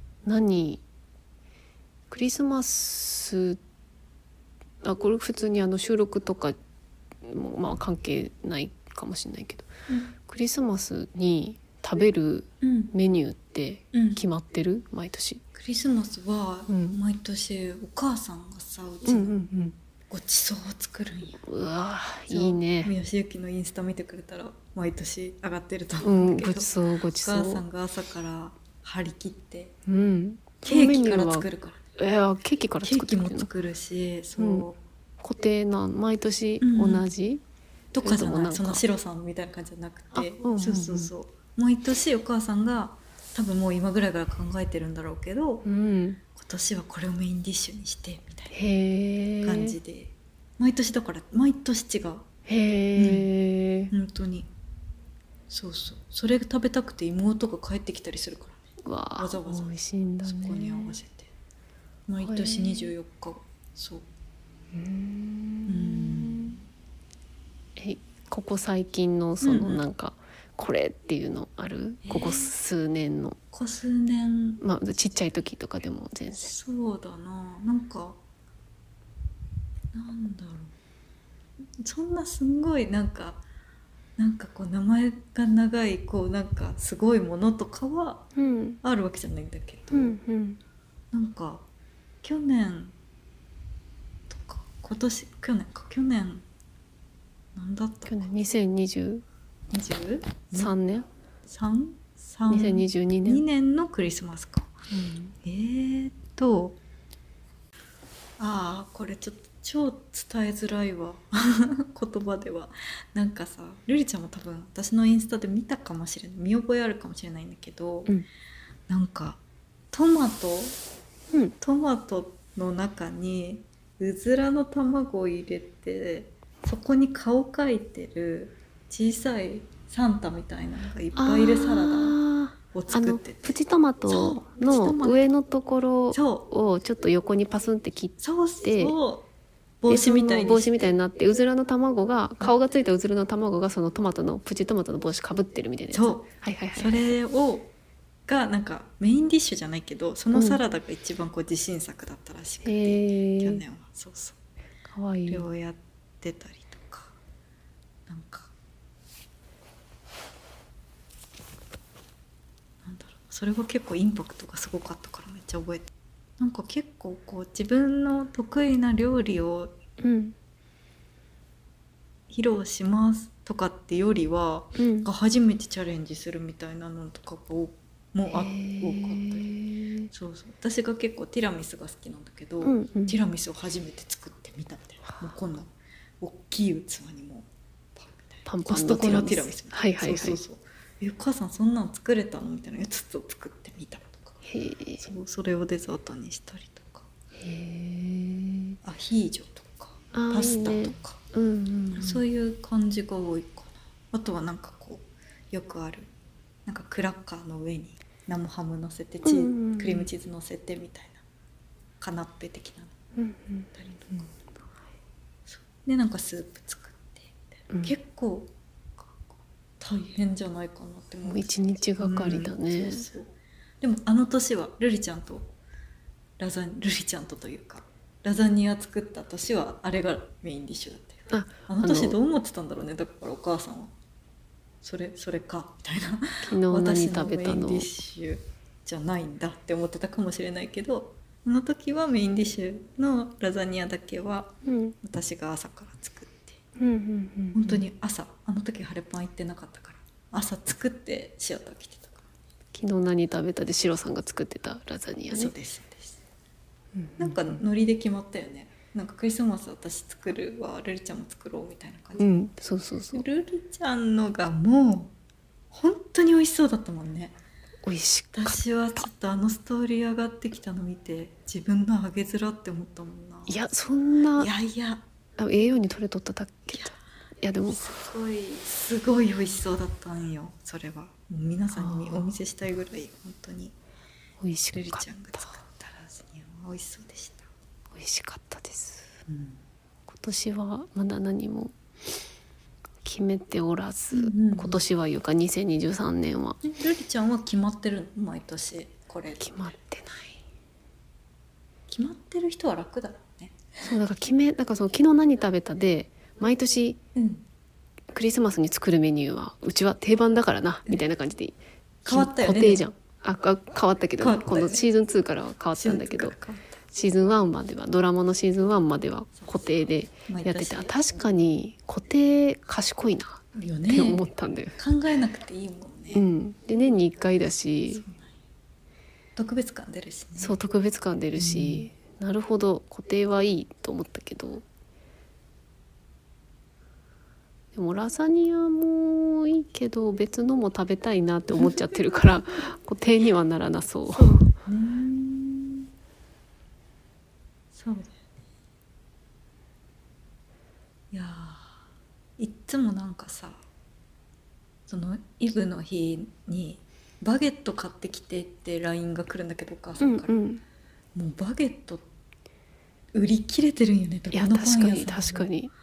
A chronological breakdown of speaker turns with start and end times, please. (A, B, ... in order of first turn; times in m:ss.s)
0:00.2-0:00.8 A
0:02.1-0:03.6 A
0:04.8-0:06.6 A
0:07.2-0:15.4 A
0:12.6-0:12.9 B
0:13.9-0:14.2 B
0:15.5-0:19.4 B
0:16.7-0:17.0 A
0:19.0-0:19.8 A
0:20.1-0:21.4 B
0:21.4-0:22.9 A
0:22.3-0:29.7 B
0:26.0-0:27.6 A
0:29.9-0:33.5 A
0:30.6-0:31.8 B
0:32.8-0:34.8 B
0:34.4-0:34.6 A
0:35.2-0:37.4 A
0:36.6-0:37.1 B
0:37.9-0:45.6 B
0:38.0-0:38.8 A
0:40.1-0:41.1 A
0:45.6-0:46.2 A
0:46.3-0:48.6 B
0:48.5-0:49.8 A
0:49.4-0:52.2 B
0:52.5-0:53.9 A
0:53.0-0:53.3 B
0:53.9-0:54.5 B
0:55.5-0:58.6 B
0:58.8-1:01.0 A
0:59.2-1:01.3 B
1:02.1-1:04.0 B
1:02.2-1:02.9 A
1:04.7-1:06.6 A
1:05.7-1:06.6 B
1:07.8-1:13.4 A
1:09.4-1:09.8 B
1:12.0-1:12.5 B
1:13.5-1:14.6 B
1:14.6-1:16.5 A
1:16.4-1:18.2 B
1:19.9-1:20.7 B
1:21.8-1:23.4 B
1:24.2-1:28.3 B
1:28.4-1:28.8 A
1:28.8-1:30.2 B
1:29.9-1:30.6 A
1:31.1-1:31.6 B
1:32.2-1:32.9 B
1:34.3-1:36.4 B
1:37.5-1:38.5 B
1:38.1-1:39.2 A
1:39.7-1:40.8 B
1:40.5-1:41.1 A
1:41.4-1:44.9 B
1:42.5-1:43.4 A
1:44.9-1:45.3 A
1:45.4-1:46.8 B
1:48.4-1:58.2 B
1:58.9-2:00.8 B
2:01.6-2:12.2 B
2:11.2-2:19.0 A
2:12.7-2:15.3 B
2:16.1-2:16.5 B
2:18.2-2:19.3 B
2:19.8-2:20.9 B
2:19.9-2:27.1 A
2:25.9-2:27.7 B
2:28.3-2:34.4 B
2:30.3-2:30.6 A
2:32.6-2:33.6 A
2:34.9-2:35.4 A
2:35.3-2:37.2 B
2:38.1-2:38.5 B
2:42.8-2:49.8 B
2:50.0-2:50.3 A
2:52.3-2:59.5 B
2:54.8-2:55.1 A
2:58.3-3:00.1 A
3:00.1-3:14.4 B
3:02.6-3:03.2 A
3:05.0-3:05.3 A
3:08.4-3:10.4 A
3:14.4-3:15.1 A
3:15.0-3:17.1 B
3:17.4-3:18.8 A
3:18.8-3:21.2 B
3:20.1-3:22.2 A
3:21.9-3:26.1 B
3:26.6-3:31.2 B
3:29.2-3:30.1 A
3:32.0-3:32.9 B
3:33.2-3:33.7 A
3:33.7-3:34.3 B
3:35.5-3:38.5 B
3:39.8-3:45.5 B
3:41.2-3:43.0 A
3:46.4-3:53.9 B
3:51.3-3:52.2 A
3:54.8-4:06.6 B
3:56.4-3:57.9 A
4:04.6-4:05.0 A
4:06.8-4:07.8 A
4:07.5-4:12.2 B
4:12.7-4:15.5 A
4:15.3-4:16.2 B
4:16.9-4:17.6 A
4:17.2-4:22.5 B
4:22.2-4:23.2 A
4:23.1-4:25.1 B
4:25.7-4:27.4 B
4:27.8-4:29.1 A
4:28.3-4:33.6 B
4:33.5-4:34.5 A
4:34.3-4:35.0 B
4:35.4-4:37.8 A
4:36.7-4:37.0 B
4:37.7-4:43.8 B
4:41.7-4:42.4 A
4:44.4-4:45.5 A
4:44.7-4:47.5 B
4:47.9-4:49.1 A
4:49.3-4:49.6 B
4:50.1-4:51.7 A
4:53.0-4:56.6 A
4:54.1-4:54.8 B
4:56.6-4:59.6 B
4:59.4-5:00.4 A
5:01.9-5:03.9 B
5:03.8-5:07.0 A
5:07.1-5:07.4 B
5:08.1-5:16.3 A
5:12.0-5:12.8 B
5:14.2-5:14.9 B
5:15.7-5:16.8 B
5:16.9-5:24.8 A
5:19.4-5:21.0 B
5:23.5-5:26.3 B
5:26.1-5:28.0 A
5:27.9-5:28.4 B
5:29.4-5:30.6 B
5:30.4-5:34.6 A
5:31.3-5:31.9 B
5:37.7-5:44.5 A
5:44.1-5:45.9 B
5:47.7-5:48.3 B
5:51.1-5:51.8 B
5:52.4-5:53.6 B
5:54.9-6:00.4 B
6:00.0-6:00.6 A
6:01.1-6:02.0 B
6:03.1-6:05.5 B
6:04.3-6:05.7 A